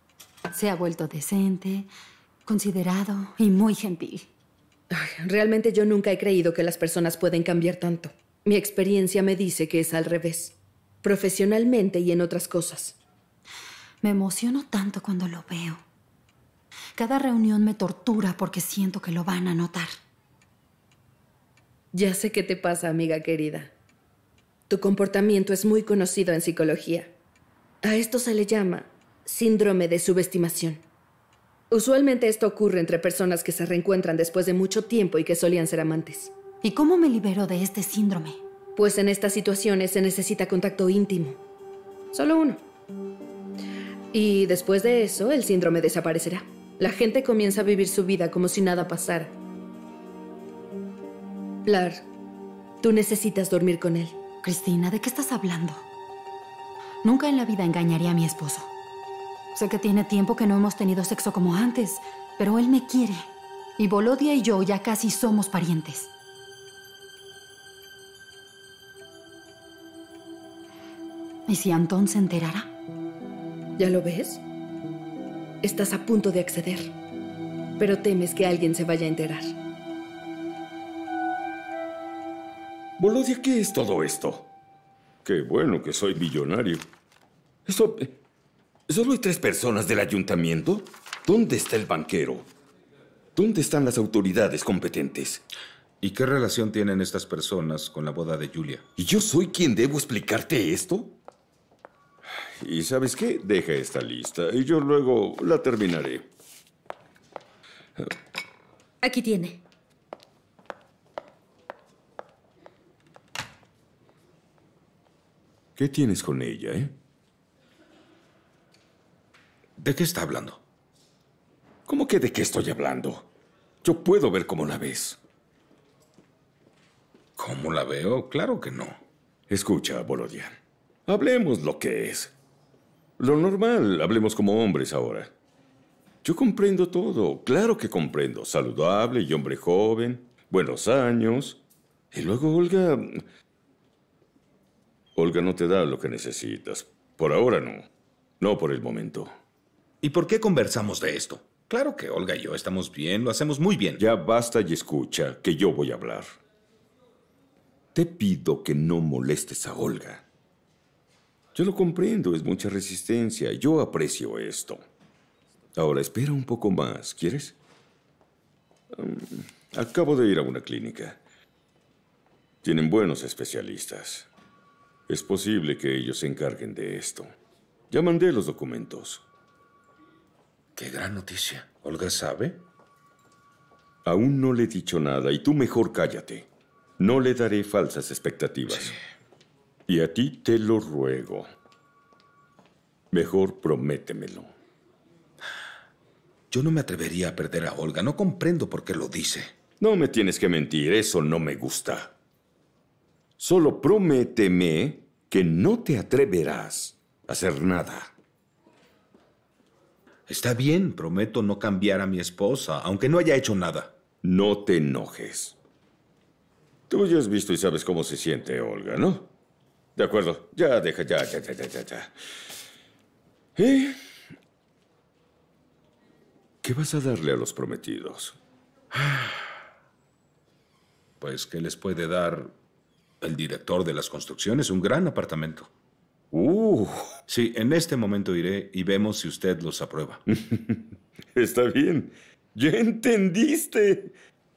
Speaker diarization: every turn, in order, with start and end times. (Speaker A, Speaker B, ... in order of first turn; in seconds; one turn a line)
Speaker A: 0.5-1.9
Speaker A: 2.5-4.3
Speaker B: 4.9-13.0
Speaker A: 14.0-15.8
Speaker A: 17.0-19.9
Speaker B: 21.9-23.7
Speaker B: 24.7-27.1
Speaker B: 27.8-30.8
Speaker B: 31.7-36.3
Speaker A: 36.6-38.4
Speaker B: 38.8-41.4
Speaker B: 42.1-42.6
Speaker B: 44.1-49.4
Speaker B: 51.7-52.0
Speaker B: 52.8-54.2
Speaker A: 54.4-55.8
Speaker A: 57.0-58.7
Speaker A: 59.5-63.3
Speaker A: 63.8-66.1
Speaker A: 71.5-72.7
Speaker B: 73.8-74.4
Speaker B: 75.6-76.9
Speaker B: 77.8-79.5
Speaker C: 83.0-84.5
Speaker C: 85.2-86.9
Speaker C: 87.7-88.2
Speaker C: 88.9-92.5
Speaker C: 93.4-95.4
Speaker D: 96.0-98.8
Speaker C: 99.0-101.2
Speaker C: 102.6-106.3
Speaker A: 109.0-109.6
Speaker C: 115.8-116.9
Speaker D: 119.8-120.6
Speaker C: 121.9-123.3
Speaker C: 123.8-125.2
Speaker D: 127.4-129.0
Speaker C: 129.5-130.6
Speaker C: 131.1-132.3
Speaker C: 133.2-135.3
Speaker C: 136.2-141.6
Speaker C: 142.1-143.2
Speaker C: 145.2-147.9
Speaker C: 148.4-149.3
Speaker D: 150.0-154.0
Speaker C: 154.0-156.4
Speaker C: 157.9-160.2
Speaker C: 161.6-164.8
Speaker C: 165.8-167.6
Speaker C: 168.9-171.2
Speaker C: 172.6-174.3
Speaker C: 175.1-177.3
Speaker C: 177.9-179.2
Speaker D: 180.8-182.6
Speaker C: 184.1-186.5
Speaker C: 187.0-189.0
Speaker C: 189.9-191.5
Speaker C: 193.1-194.5
Speaker D: 196.5-199.6
Speaker C: 199.8-202.1
Speaker C: 203.4-208.1
Speaker D: 210.3-214.0
Speaker C: 214.2-215.6
Speaker C: 216.9-219.3
Speaker C: 220.0-222.1
Speaker C: 223.6-224.0
Speaker C: 226.6-228.4
Speaker D: 228.9-229.4
Speaker D: 231.2-232.6
Speaker D: 233.2-235.7
Speaker C: 236.3-237.1
Speaker D: 237.3-240.2
Speaker C: 240.3-240.8
Speaker C: 241.3-244.1